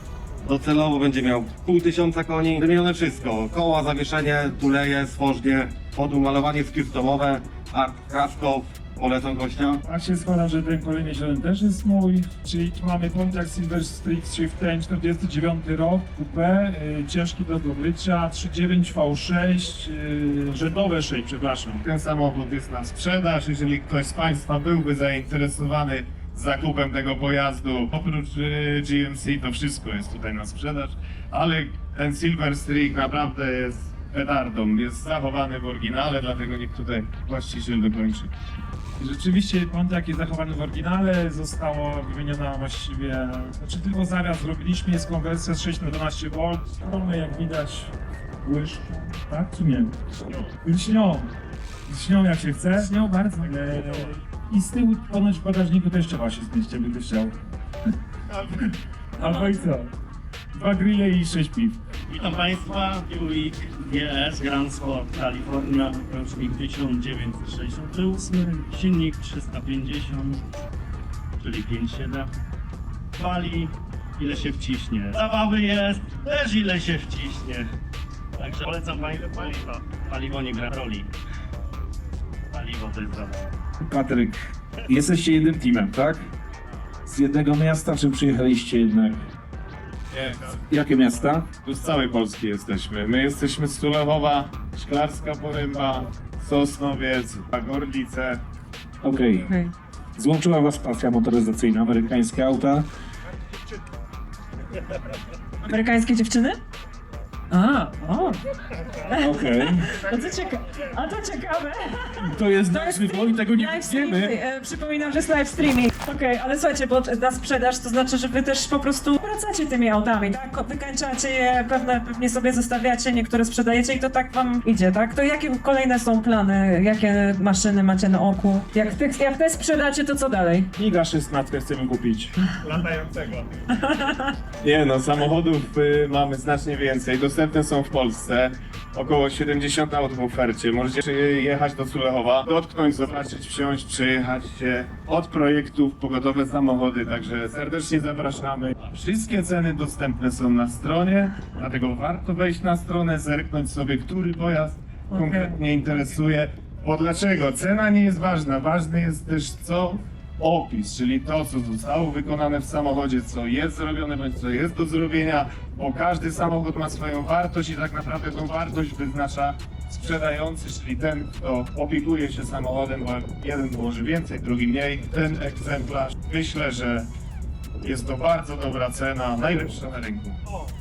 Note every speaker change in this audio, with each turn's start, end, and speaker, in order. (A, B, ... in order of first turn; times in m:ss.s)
0:00.4-0:09.8 A
0:09.8-0:21.8 B
0:21.8-0:38.3 C
0:39.0-0:50.0 B
0:50.5-0:51.3 B
0:51.9-0:57.4 B
0:59.2-0:59.9 B
1:00.5-1:01.8 B
1:02.1-1:10.4 D
1:11.4-1:12.3 D
1:13.2-1:17.7 D
1:18.4-1:21.1 D
1:22.5-1:23.5 D
1:23.8-1:26.3 E
1:27.1-1:29.2 E
1:30.1-1:30.6 C
1:30.7-1:31.5 E
1:31.6-1:38.4 C
1:39.0-1:39.5 E
1:39.4-1:39.7 F
1:40.2-1:42.9 E
1:45.6-1:46.6 F
1:47.5-1:48.4 F
1:49.1-2:10.7 F
1:49.2-1:49.9 E
1:52.2-1:54.4 E
2:10.8-2:12.4 B
2:12.6-2:13.7 C
2:13.8-2:14.3 F
2:14.6-2:57.1 C
2:35.1-2:35.6 F
2:57.8-3:00.4 C